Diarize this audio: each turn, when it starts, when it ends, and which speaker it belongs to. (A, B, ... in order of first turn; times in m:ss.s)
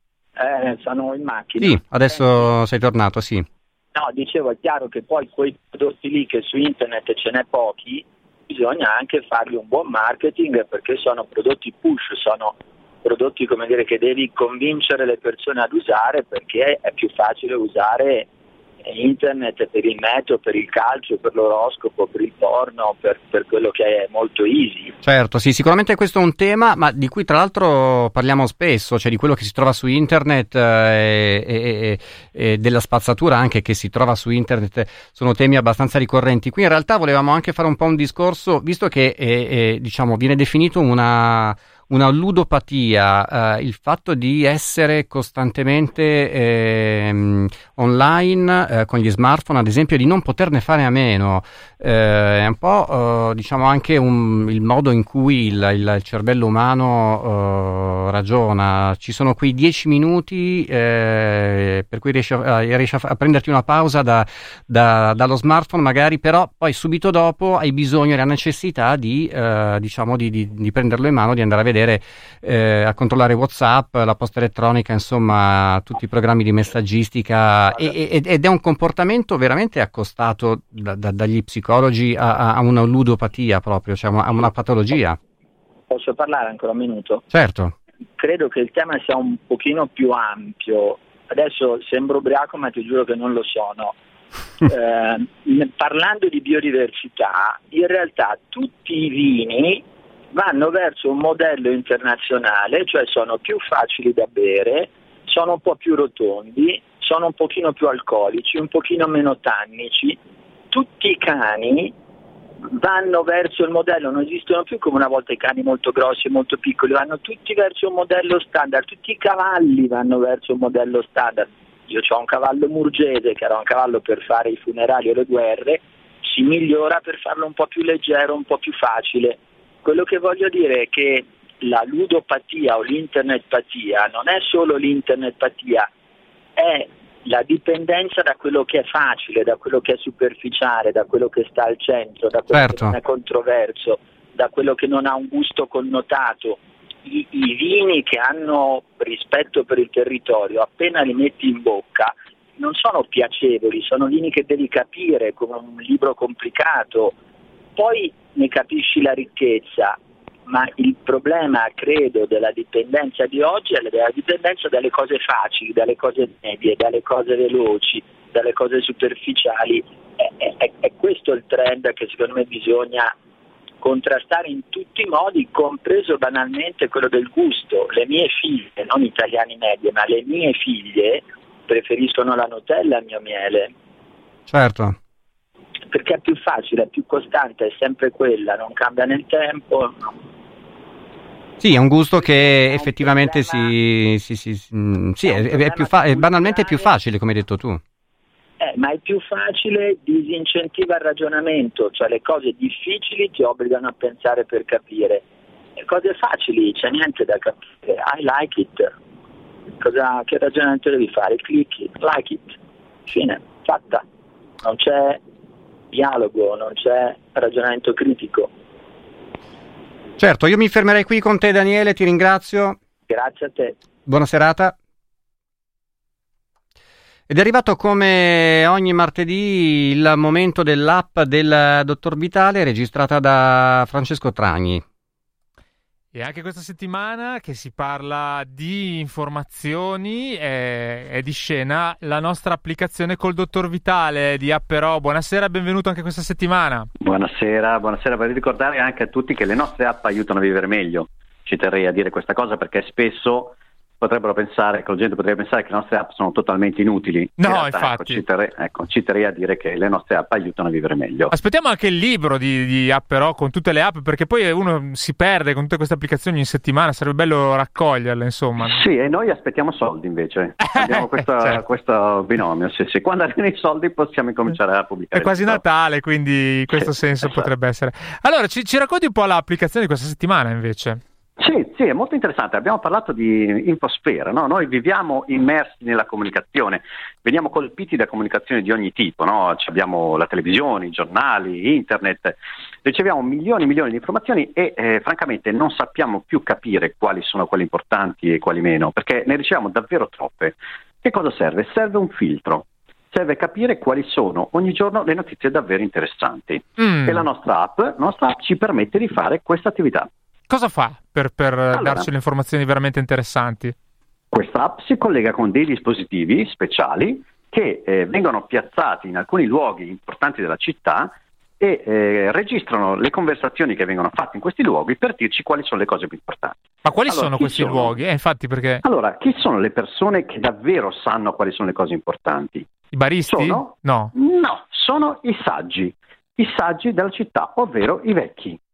0:00.4-0:02.5 A
0:01.6-0:03.4 B
0:03.9-0:18.3 A
0:18.8-0:24.9 A
0:25.0-1:25.2 B
1:25.9-1:27.2 A
1:27.3-1:27.7 B
1:28.2-1:33.9 A
1:34.6-1:50.2 A
1:50.7-1:51.9 A
1:52.7-2:15.9 A
2:16.6-2:37.2 A
2:22.5-2:23.0 B
2:37.8-2:53.1 A
2:53.8-3:03.7 A
3:04.5-3:05.0 B
3:05.9-3:10.2 A
3:11.6-3:17.8 B
3:12.2-3:13.7 A
3:15.2-3:16.9 A
3:18.6-3:25.2 A
3:25.8-3:28.9 A
3:29.8-3:34.0 A
3:34.6-3:35.2 A
3:35.9-3:38.5 A
3:40.2-3:42.8 B
3:43.1-3:43.8 A
3:44.1-3:44.7 B
3:47.3-3:54.8 B
3:56.1-4:06.9 C
4:07.0-4:21.3 D
4:17.4-4:18.2 C
4:21.3-4:28.8 C
4:28.6-4:35.6 D
4:30.6-4:31.6 C
4:35.1-4:41.0 C
4:36.8-4:37.4 D
4:41.4-5:10.1 D
5:06.8-5:07.2 C
5:10.5-5:13.7 C
5:11.7-5:12.1 D
5:14.3-5:28.0 D
5:26.8-5:28.8 C
5:28.8-5:32.7 D
5:32.9-5:34.1 C
5:33.3-5:38.6 D